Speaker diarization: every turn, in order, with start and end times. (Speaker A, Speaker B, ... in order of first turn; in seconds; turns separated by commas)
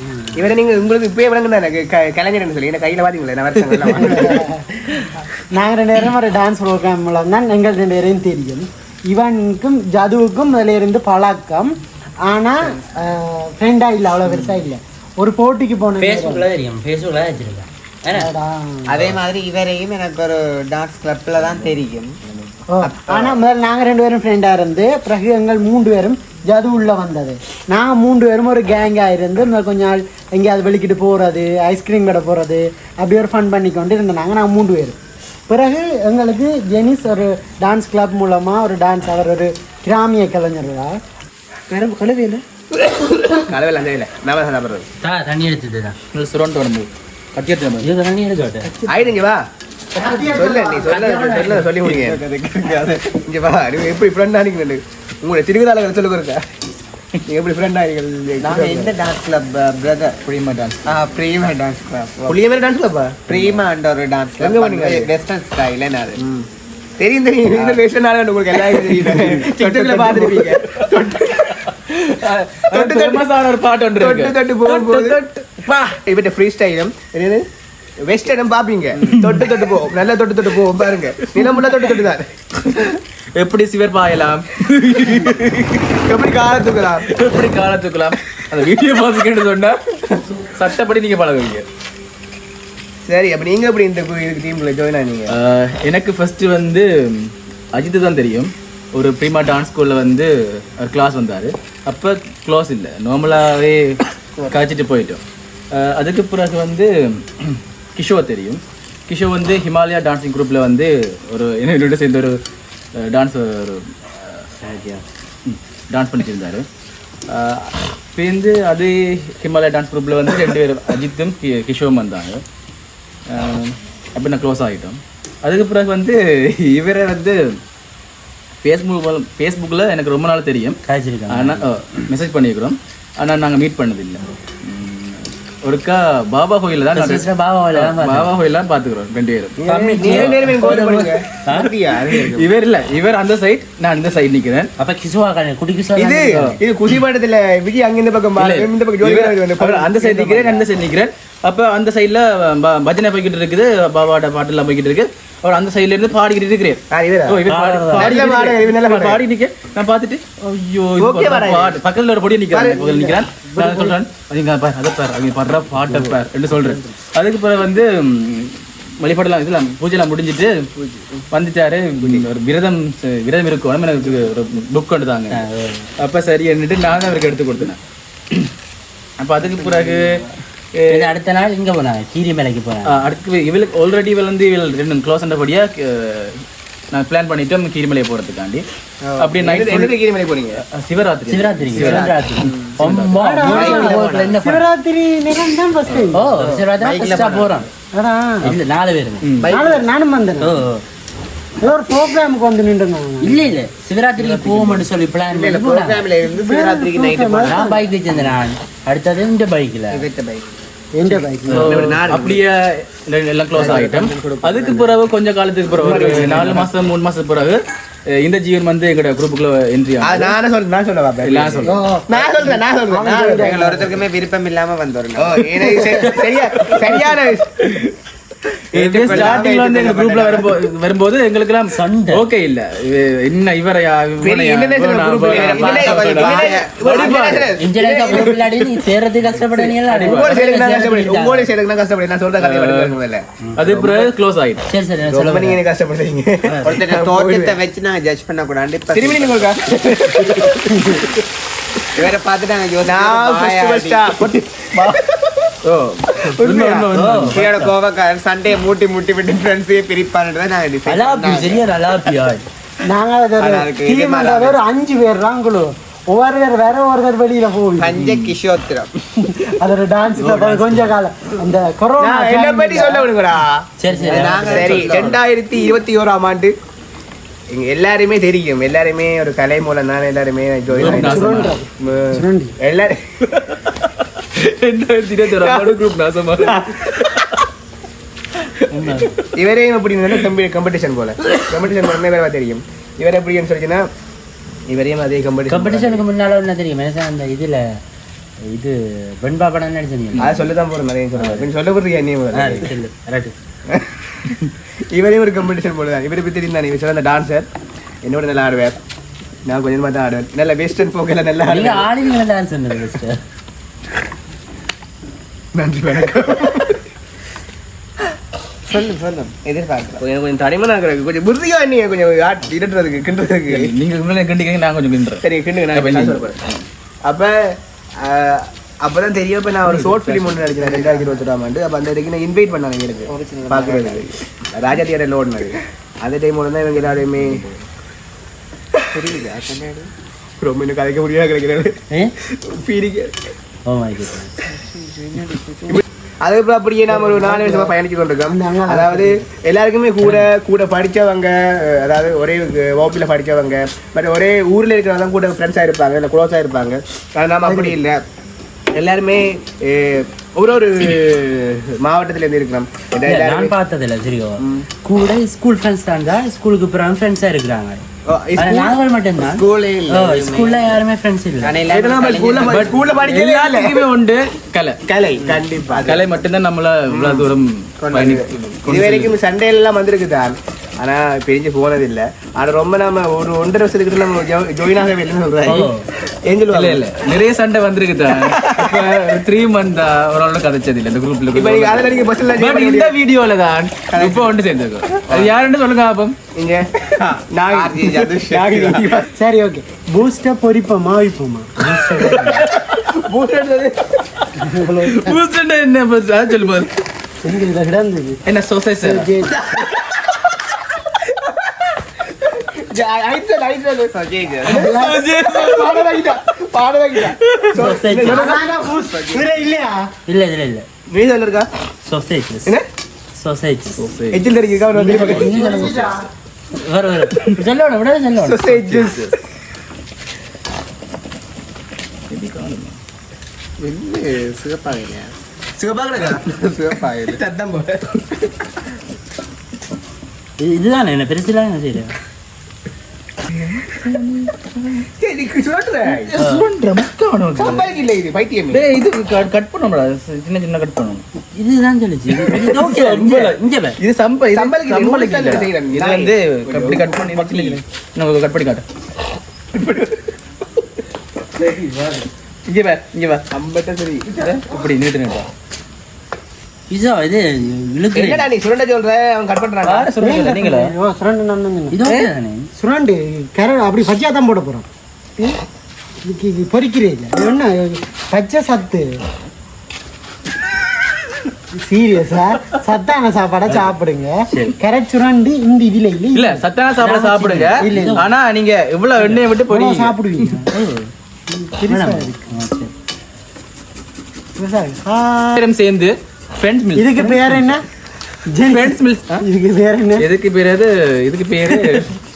Speaker A: 0.3-4.5, Speaker B: 3.9-11.8, Speaker B: 12.3-16.5, Speaker C: 16.0-18.3, Speaker B: 18.1-19.2, Speaker D: 18.9-22.2, Speaker B: 22.7-35.0, Speaker D: 22.8-23.3, Speaker B: 35.5-41.0, Speaker A: 41.7-44.9, Speaker C: 45.0-46.0, Speaker E: 46.1-47.9, Speaker C: 47.8-48.7, Speaker A: 48.9-49.4, Speaker B: 49.9-51.1, Speaker A: 50.3-52.2, Speaker C: 50.8-51.7, Speaker D: 51.8-53.2, Speaker A: 53.1-56.5, Speaker A: 57.3-58.9, Speaker D: 58.4-60.2, Speaker E: 60.2-60.8, Speaker D: 60.9-62.4, Speaker A: 62.3-63.4, Speaker D: 63.3-66.2, Speaker A: 64.4-65.1, Speaker A: 66.2-66.5, Speaker A: 67.0-71.7, Speaker D: 67.5-67.8, Speaker E: 68.6-76.0, Speaker A: 72.7-73.3, Speaker A: 74.0-75.2, Speaker A: 76.0-77.5, Speaker A: 78.0-82.3, Speaker E: 79.0-79.6, Speaker E: 81.3-82.0, Speaker E: 82.7-86.0, Speaker A: 86.0-87.1, Speaker E: 87.1-91.7, Speaker A: 93.1-95.3, Speaker E: 95.3-105.2, Speaker E: 105.7-112.4, Speaker E: 113.0-114.5, Speaker C: 114.7-115.0, Speaker E: 115.5-116.7, Speaker E: 117.3-122.4, Speaker E: 123.3-127.6, Speaker E: 128.6-130.8, Speaker C: 130.9-131.7, Speaker E: 131.3-140.6, Speaker C: 136.9-138.3, Speaker A: 139.6-141.4, Speaker C: 139.6-141.7, Speaker D: 141.5-142.4, Speaker E: 142.1-144.7, Speaker C: 144.8-146.5, Speaker A: 146.0-150.6, Speaker E: 148.4-170.7, Speaker A: 156.9-159.2, Speaker C: 157.5-158.3, Speaker A: 161.0-161.8, Speaker A: 162.5-163.1, Speaker B: 163.5-164.0, Speaker E: 171.3-175.4, Speaker C: 175.3-175.9, Speaker E: 176.0-177.8, Speaker E: 179.2-180.2, Speaker D: 179.8-180.2, Speaker E: 180.8-181.1, Speaker C: 180.9-183.0, Speaker E: 182.9-188.7, Speaker D: 189.1-189.3, Speaker E: 189.2-190.0, Speaker A: 189.4-190.6, Speaker E: 190.6-192.1, Speaker C: 191.3-194.7, Speaker A: 191.8-192.1, Speaker D: 192.4-192.8, Speaker E: 192.8-193.7, Speaker B: 193.2-196.3, Speaker D: 193.5-194.4, Speaker E: 195.9-196.1, Speaker C: 196.1-197.7, Speaker D: 196.4-197.6, Speaker B: 197.9-198.6, Speaker C: 198.4-199.3, Speaker E: 199.2-199.6, Speaker D: 199.4-199.9, Speaker B: 199.5-200.7, Speaker C: 200.4-200.8, Speaker B: 201.6-203.6, Speaker C: 203.2-206.1, Speaker D: 205.3-207.7, Speaker B: 206.3-207.8, Speaker C: 207.4-210.1, Speaker D: 209.9-210.5, Speaker B: 211.0-211.9, Speaker E: 211.5-220.4, Speaker A: 211.5-212.3, Speaker D: 211.6-212.4, Speaker D: 213.6-215.0, Speaker A: 213.6-213.9, Speaker A: 215.7-216.7, Speaker A: 220.0-223.7, Speaker E: 221.2-221.8, Speaker B: 221.7-224.0, Speaker D: 223.3-225.6, Speaker A: 225.2-227.7, Speaker E: 225.8-226.1, Speaker E: 226.7-226.9, Speaker E: 227.6-227.9, Speaker E: 228.7-238.3, Speaker D: 228.7-230.4, Speaker A: 228.9-229.6, Speaker C: 231.7-232.2, Speaker A: 234.2-238.5, Speaker D: 235.2-237.3, Speaker C: 237.6-241.5, Speaker A: 239.6-244.1, Speaker E: 239.8-240.9, Speaker E: 242.4-243.0, Speaker E: 243.6-244.6, Speaker C: 244.7-245.6, Speaker A: 245.1-247.6, Speaker D: 246.6-249.6, Speaker E: 246.8-247.2, Speaker A: 248.9-250.9, Speaker E: 249.9-250.6, Speaker D: 251.9-254.1, Speaker A: 252.8-254.3, Speaker E: 254.2-255.0, Speaker E: 255.6-257.7, Speaker A: 256.2-256.9, Speaker C: 256.9-257.7, Speaker D: 257.3-261.6, Speaker C: 260.9-262.4, Speaker B: 262.8-268.1, Speaker D: 263.4-264.6, Speaker D: 267.8-268.9, Speaker B: 269.2-273.1, Speaker E: 270.2-270.8, Speaker A: 272.0-273.6, Speaker C: 273.8-275.1, Speaker D: 274.1-275.2, Speaker A: 274.3-276.6, Speaker E: 274.4-274.7, Speaker A: 277.5-283.0, Speaker E: 280.7-281.6, Speaker B: 280.8-282.6, Speaker E: 283.3-287.3, Speaker A: 285.3-285.8, Speaker A: 286.4-287.0, Speaker C: 288.7-289.2, Speaker A: 289.3-293.9, Speaker A: 294.7-296.0, Speaker C: 295.5-297.8, Speaker C: 298.4-300.4, Speaker A: 300.2-302.7, Speaker E: 300.2-300.5, Speaker C: 301.2-301.4, Speaker C: 302.3-303.3, Speaker A: 303.7-304.4, Speaker A: 304.9-307.5, Speaker A: 308.0-308.8, Speaker A: 309.5-311.9, Speaker C: 311.5-313.2, Speaker A: 315.5-316.8, Speaker D: 318.7-320.0, Speaker A: 320.0-323.7, Speaker E: 323.5-326.6, Speaker A: 325.2-326.4, Speaker A: 327.1-337.4, Speaker E: 329.6-330.5, Speaker D: 330.6-331.1, Speaker D: 333.1-334.1, Speaker D: 338.9-339.9, Speaker A: 340.4-341.8, Speaker A: 342.3-343.2, Speaker C: 343.7-344.4, Speaker D: 344.5-345.8, Speaker A: 345.7-358.0, Speaker B: 346.9-347.7, Speaker B: 348.3-349.2, Speaker B: 357.4-357.8, Speaker A: 358.7-363.6, Speaker C: 363.1-367.8, Speaker A: 364.4-364.7, Speaker A: 368.1-368.8, Speaker C: 368.4-371.6, Speaker D: 369.2-370.7, Speaker D: 371.4-372.6, Speaker E: 371.7-374.8, Speaker A: 371.9-373.8, Speaker A: 374.9-376.0, Speaker D: 375.2-376.0, Speaker E: 375.8-379.2, Speaker D: 377.8-378.2, Speaker A: 378.0-386.9, Speaker C: 385.4-385.9, Speaker E: 386.5-396.2, Speaker A: 388.1-389.0, Speaker A: 391.3-393.0, Speaker A: 395.1-395.4, Speaker A: 396.4-396.7, Speaker D: 397.0-398.9, Speaker A: 397.3-398.9, Speaker E: 398.3-399.1, Speaker B: 399.1-402.4, Speaker E: 401.9-402.8, Speaker A: 402.9-403.8, Speaker B: 404.4-405.2, Speaker E: 404.8-406.7, Speaker B: 407.2-408.2, Speaker E: 408.3-409.1, Speaker B: 408.8-409.4, Speaker A: 412.2-418.5, Speaker D: 413.9-414.7, Speaker B: 414.4-415.0, Speaker E: 414.5-416.1, Speaker E: 417.2-417.6, Speaker C: 417.5-418.4, Speaker B: 418.0-419.9, Speaker D: 418.8-419.2, Speaker C: 420.1-420.7, Speaker A: 420.9-421.5, Speaker C: 421.9-422.6, Speaker C: 423.2-423.9, Speaker E: 423.8-424.3, Speaker A: 424.1-425.9, Speaker B: 424.8-426.1, Speaker C: 424.9-425.9, Speaker C: 426.6-428.8, Speaker A: 428.2-429.1, Speaker E: 428.6-429.1, Speaker E: 432.1-432.8, Speaker D: 433.6-435.1, Speaker A: 435.6-436.2, Speaker D: 435.9-437.2, Speaker A: 437.1-438.0, Speaker C: 440.4-442.0, Speaker E: 443.4-444.9, Speaker A: 445.0-446.1, Speaker E: 445.8-447.7, Speaker C: 446.2-446.4, Speaker A: 447.4-448.6, Speaker E: 448.5-451.0, Speaker C: 451.3-453.8, Speaker E: 452.3-458.6, Speaker A: 454.3-457.6, Speaker A: 459.6-460.0, Speaker C: 461.4-462.1, Speaker E: 462.5-463.2, Speaker A: 463.3-464.2, Speaker E: 464.2-465.3, Speaker C: 466.7-468.3, Speaker A: 467.9-469.9, Speaker E: 469.6-470.7, Speaker B: 470.0-471.8, Speaker C: 471.7-472.5, Speaker B: 472.6-475.4, Speaker B: 476.0-479.0, Speaker B: 481.5-486.4, Speaker E: 486.1-490.4, Speaker C: 486.8-488.1, Speaker B: 487.6-488.1, Speaker B: 489.5-490.5, Speaker C: 490.5-490.9, Speaker B: 491.3-492.3, Speaker C: 491.7-492.7, Speaker B: 494.4-495.5, Speaker E: 495.3-497.6, Speaker B: 496.8-497.6, Speaker B: 498.3-500.1, Speaker E: 498.5-499.2, Speaker E: 500.0-502.0